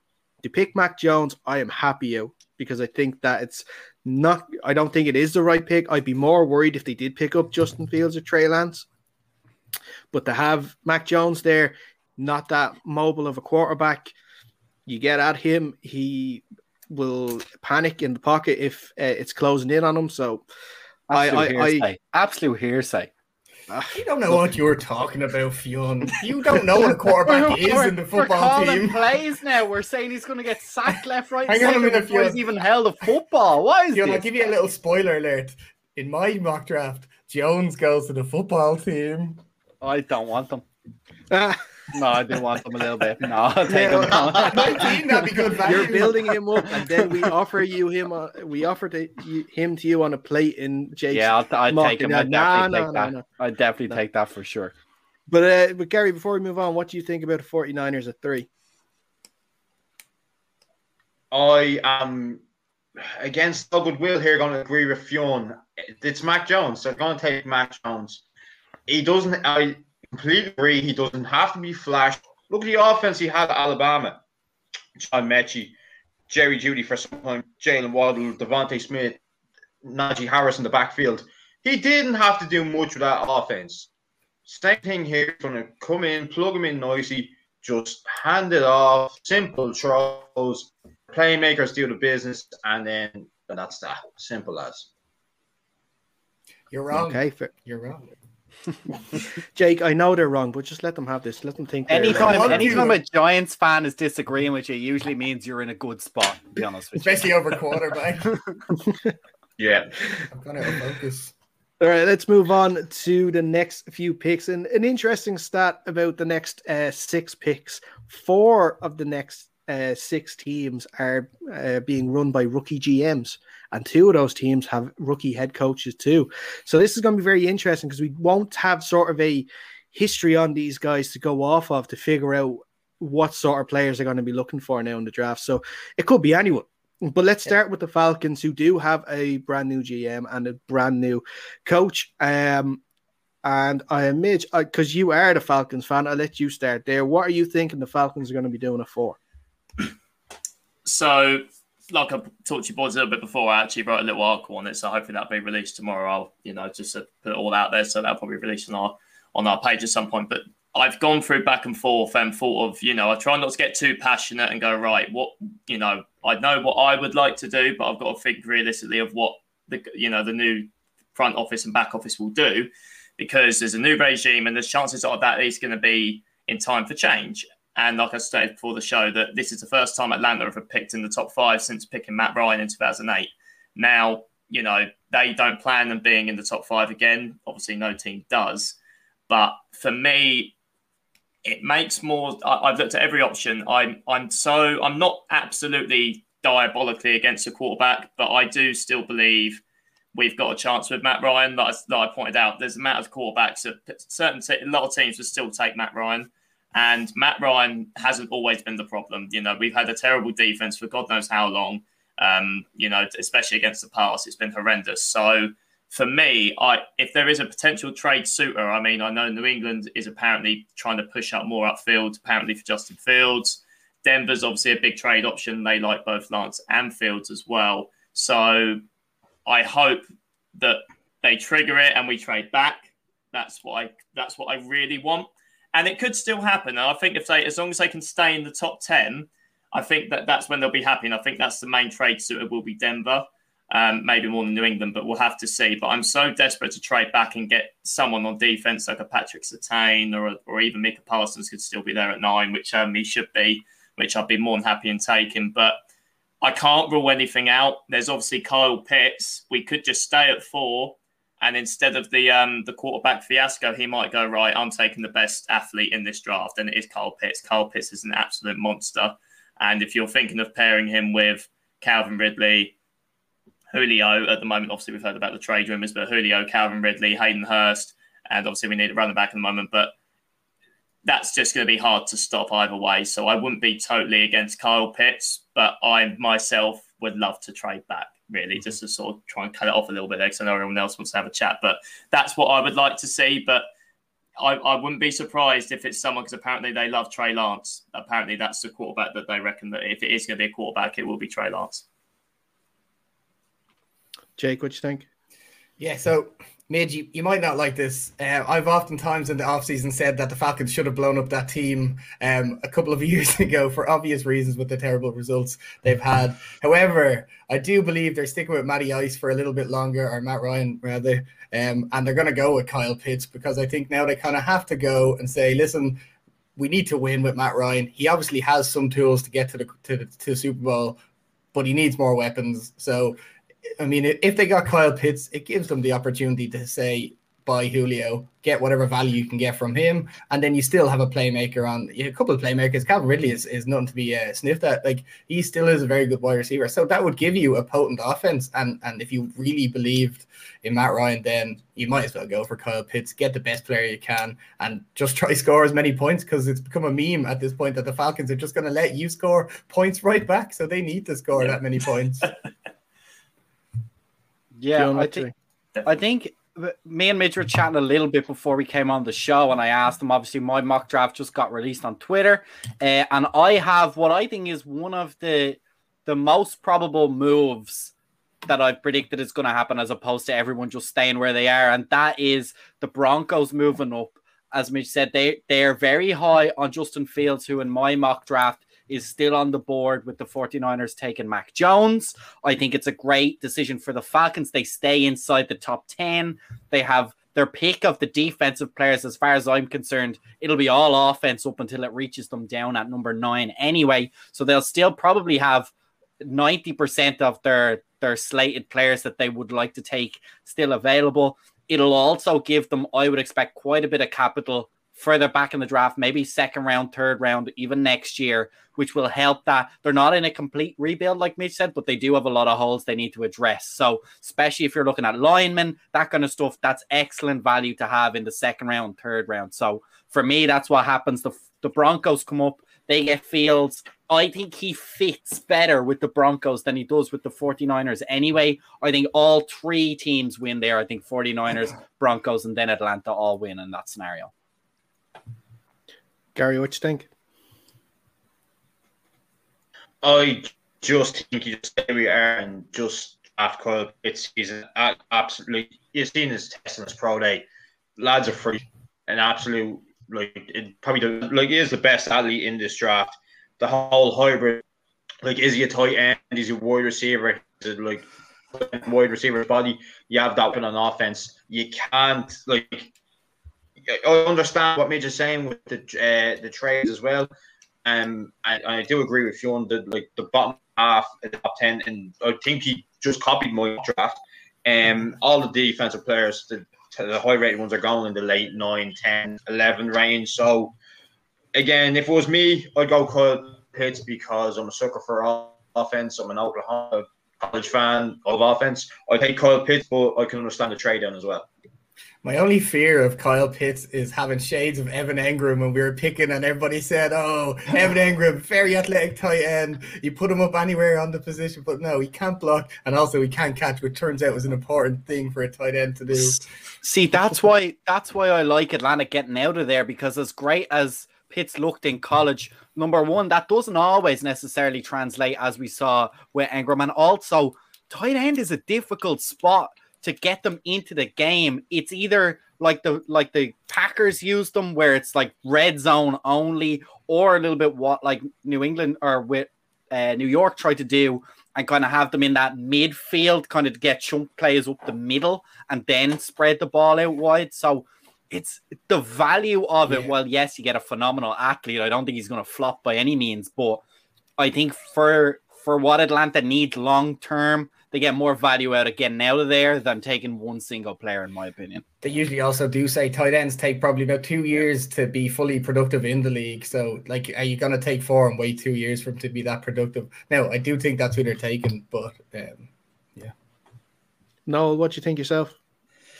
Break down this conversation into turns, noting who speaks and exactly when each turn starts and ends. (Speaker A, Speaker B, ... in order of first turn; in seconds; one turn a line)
Speaker A: 0.4-8.9
Speaker A: 10.1-14.1
Speaker A: 14.9-20.4
Speaker B: 21.1-23.1
Speaker A: 21.1-21.9
Speaker C: 23.9-29.0
Speaker B: 27.2-34.2
Speaker C: 31.5-32.4
Speaker C: 33.9-39.4
Speaker B: 39.8-40.6
Speaker A: 41.3-42.5
Speaker B: 41.9-45.0
Speaker A: 43.7-45.0
Speaker C: 44.4-46.3
Speaker A: 45.6-53.3
Speaker B: 51.1-54.7
Speaker A: 55.3-58.5
Speaker D: 61.3-62.4
Speaker D: 63.2-68.2
Speaker D: 68.9-74.2
Speaker D: 75.0-75.8
Speaker D: 76.3-79.2
Speaker D: 79.8-83.9
Speaker D: 84.5-94.9
Speaker C: 96.7-98.1
Speaker A: 96.9-97.5
Speaker A: 99.5-103.0
Speaker B: 101.9-107.5
Speaker C: 102.1-103.0
Speaker C: 107.0-108.4
Speaker D: 109.6-109.9
Speaker C: 110.3-111.3
Speaker A: 111.8-142.8
Speaker A: 143.4-149.2
Speaker E: 150.8-188.8
Speaker E: 189.3-190.5
Speaker E: 191.4-199.6
Speaker E: 200.1-228.8
Speaker E: 229.5-230.1
Speaker E: 230.6-255.8
Speaker E: 256.4-272.7
Speaker E: 273.7-279.9
Speaker E: 281.1-293.7
Speaker E: 294.4-301.9
Speaker A: 304.4-305.1
Speaker C: 305.8-326.0
Speaker C: 326.6-331.0
Speaker C: 331.5-333.2
Speaker C: 333.8-362.3
Speaker B: 364.6-365.3
Speaker A: 364.7-365.3
Speaker B: 365.8-377.9
Speaker B: 378.5-444.3
Speaker A: 446.4-447.1
Speaker D: 450.0-457.5
Speaker D: 458.0-464.6
Speaker D: 465.2-472.9
Speaker D: 473.9-477.3
Speaker D: 477.8-490.8
Speaker D: 491.5-501.5
Speaker C: 502.2-516.4
Speaker B: 516.1-553.8
Speaker B: 554.4-561.8
Speaker C: 562.0-573.3
Speaker A: 574.5-575.5